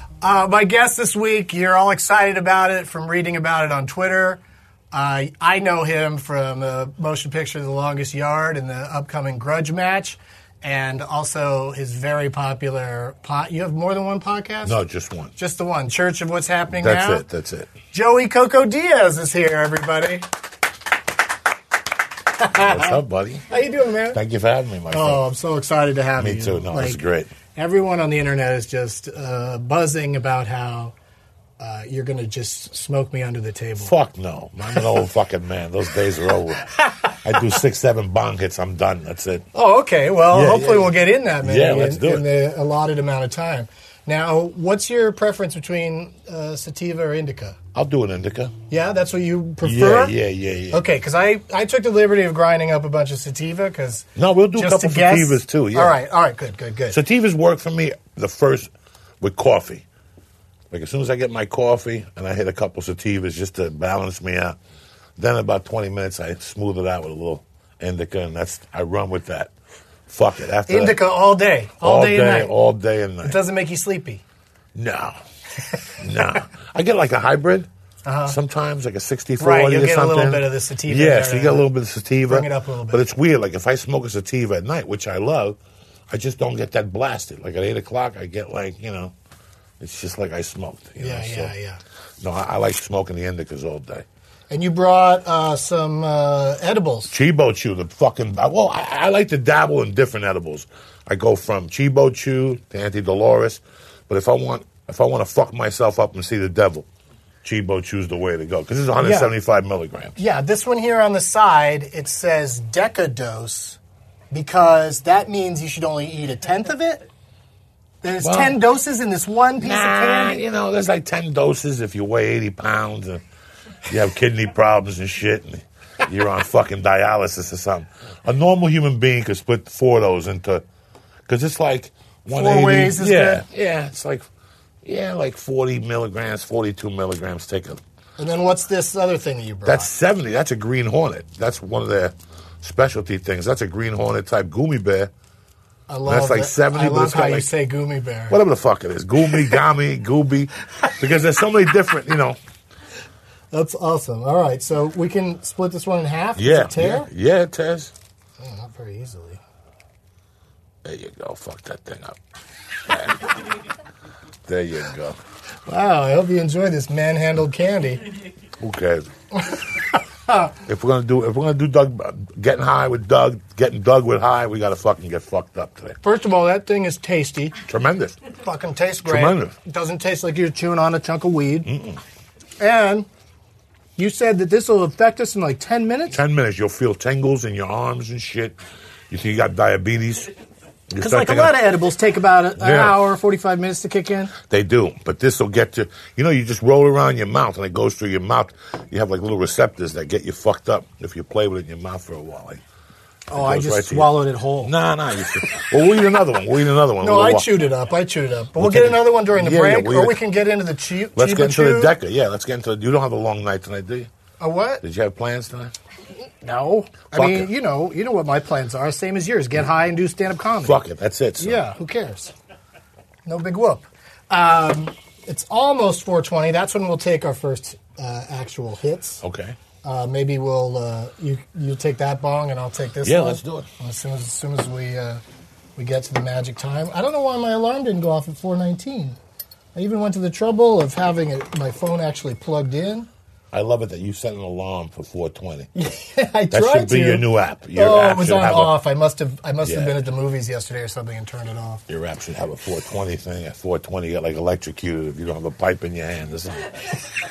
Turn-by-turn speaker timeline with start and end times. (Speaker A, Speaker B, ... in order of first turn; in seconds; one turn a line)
Speaker A: 0.2-4.4
Speaker A: 4.9-14.8
Speaker B: 14.6-15.3
Speaker A: 15.4-17.2
Speaker B: 16.8-17.7
Speaker A: 17.9-20.3
Speaker A: 22.4-24.2
Speaker B: 22.5-23.5
Speaker B: 24.1-25.2
Speaker A: 24.9-27.0
Speaker B: 26.2-27.3
Speaker A: 27.6-30.9
Speaker A: 31.6-33.9
Speaker B: 33.8-39.5
Speaker A: 36.7-37.6
Speaker A: 39.5-47.6
Speaker B: 40.3-42.3
Speaker B: 47.8-48.5
Speaker A: 48.7-50.1
Speaker B: 49.6-50.8
Speaker A: 50.7-57.0
Speaker B: 54.2-56.0
Speaker B: 56.9-59.9
Speaker B: 60.7-64.6
Speaker B: 65.2-69.5
Speaker B: 70.1-71.0
Speaker A: 70.7-72.5
Speaker B: 71.8-73.4
Speaker A: 73.2-74.2
Speaker B: 74.8-75.2
Speaker B: 76.0-77.7
Speaker A: 78.0-78.4
Speaker B: 78.3-85.6
Speaker A: 79.4-81.7
Speaker A: 82.3-83.1
Speaker B: 86.1-89.1
Speaker B: 89.8-91.5
Speaker A: 91.0-91.8
Speaker B: 92.2-94.1
Speaker A: 94.5-97.1
Speaker B: 97.1-106.9
Speaker B: 107.4-110.2
Speaker A: 109.0-109.3
Speaker A: 110.2-113.8
Speaker A: 114.3-117.0
Speaker A: 118.0-120.4
Speaker B: 118.2-118.6
Speaker B: 119.6-123.2
Speaker B: 123.9-130.7
Speaker B: 131.3-134.3
Speaker A: 132.3-133.4
Speaker B: 134.8-137.8
Speaker A: 138.2-139.9
Speaker B: 139.7-145.1
Speaker A: 145.9-148.4
Speaker B: 146.1-147.5
Speaker B: 148.3-152.4
Speaker A: 153.5-157.1
Speaker B: 156.4-157.9
Speaker A: 158.4-159.4
Speaker B: 160.8-162.2
Speaker B: 162.8-163.5
Speaker B: 164.5-165.2
Speaker A: 165.7-168.1
Speaker B: 168.6-169.1
Speaker B: 170.6-176.0
Speaker A: 176.0-177.6
Speaker B: 177.7-178.2
Speaker A: 178.3-181.7
Speaker B: 179.0-179.5
Speaker B: 181.7-182.0
Speaker A: 182.6-183.1
Speaker A: 184.0-186.2
Speaker B: 186.1-188.6
Speaker B: 189.1-190.3
Speaker B: 190.9-191.6
Speaker A: 191.0-194.3
Speaker B: 192.6-193.0
Speaker B: 194.4-202.6
Speaker A: 203.3-204.7
Speaker B: 203.3-207.5
Speaker A: 207.0-211.9
Speaker B: 208.6-210.2
Speaker B: 211.2-214.1
Speaker A: 214.4-214.8
Speaker B: 214.8-215.7
Speaker A: 216.4-220.8
Speaker B: 217.1-217.5
Speaker B: 220.6-221.6
Speaker A: 221.4-222.3
Speaker A: 223.3-229.2
Speaker B: 229.2-229.6
Speaker A: 229.8-235.2
Speaker B: 233.0-233.7
Speaker A: 235.8-239.2
Speaker A: 239.8-243.1
Speaker B: 243.5-245.7
Speaker A: 245.8-251.8
Speaker B: 246.5-248.8
Speaker B: 249.6-250.0
Speaker B: 251.9-256.9